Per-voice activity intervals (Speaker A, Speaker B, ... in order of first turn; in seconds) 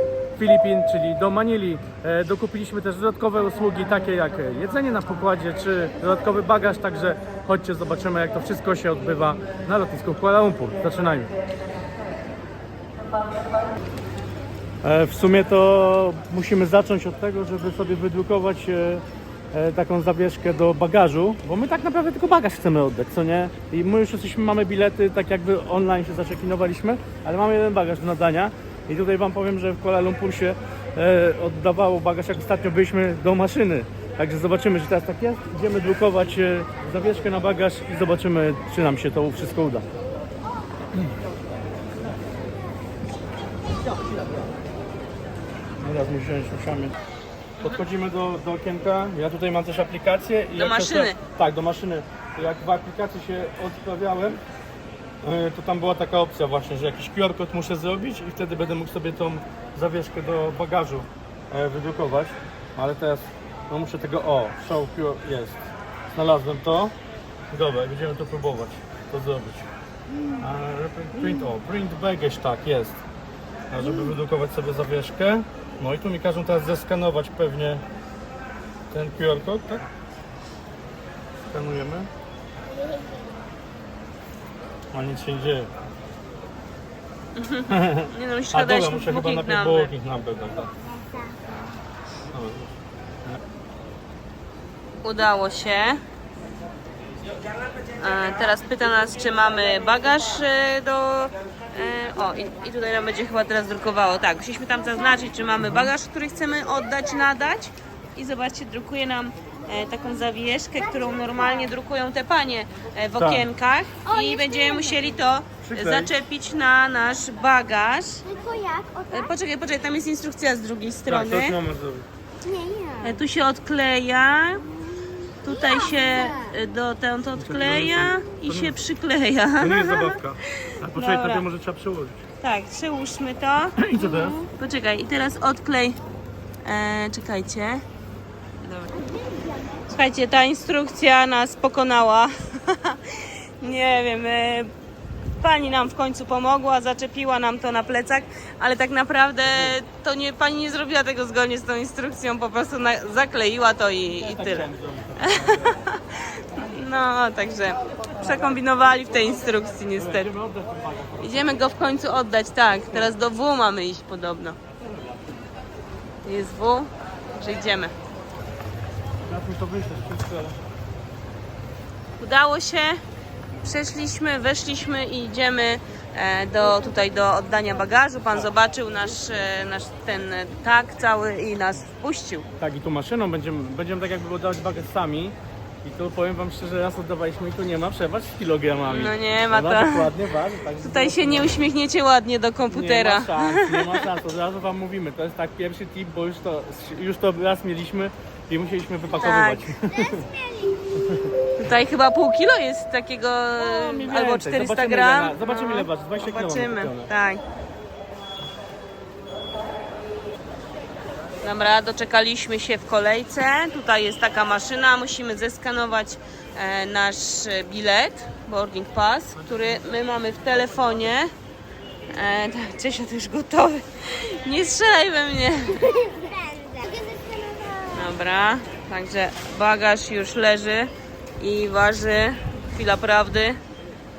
Speaker A: 0.4-11.3, 14.8-39.9, 45.8-46.9, 47.6-54.4, 55.2-65.6, 66.1-66.9, 67.5-69.7, 70.4-73.0, 73.7-77.8, 78.9-79.8, 81.5-82.1, 84.9-85.7, 87.7-90.7, 92.3-92.7, 105.6-105.9, 113.2-113.5, 115.6-116.1, 121.1-122.0, 127.4-128.8, 129.6-132.2, 133.8-134.4, 154.2-155.8, 159.9-161.6, 169.2-170.6, 182.6-191.6, 192.7-200.2, 203.6-207.1
Speaker B: 50.6-51.2, 87.3-89.9, 95.0-96.0, 98.0-118.2, 119.1-121.6, 123.0-124.6, 125.4-131.4, 132.4-136.0, 136.6-137.8, 138.6-139.0, 139.9-144.7, 145.4-160.3, 161.2-164.6, 166.2-167.9, 172.2-173.0, 173.6-182.5, 188.9-190.1, 190.8-194.0, 199.2-199.7, 201.6-207.4, 211.4-221.3, 222.1-225.9, 227.9-233.6
Speaker C: 82.7-83.3, 90.8-91.4, 114.0-115.1, 118.2-119.3, 122.4-123.2, 125.5-126.5, 138.9-139.9, 199.8-200.9, 225.8-228.1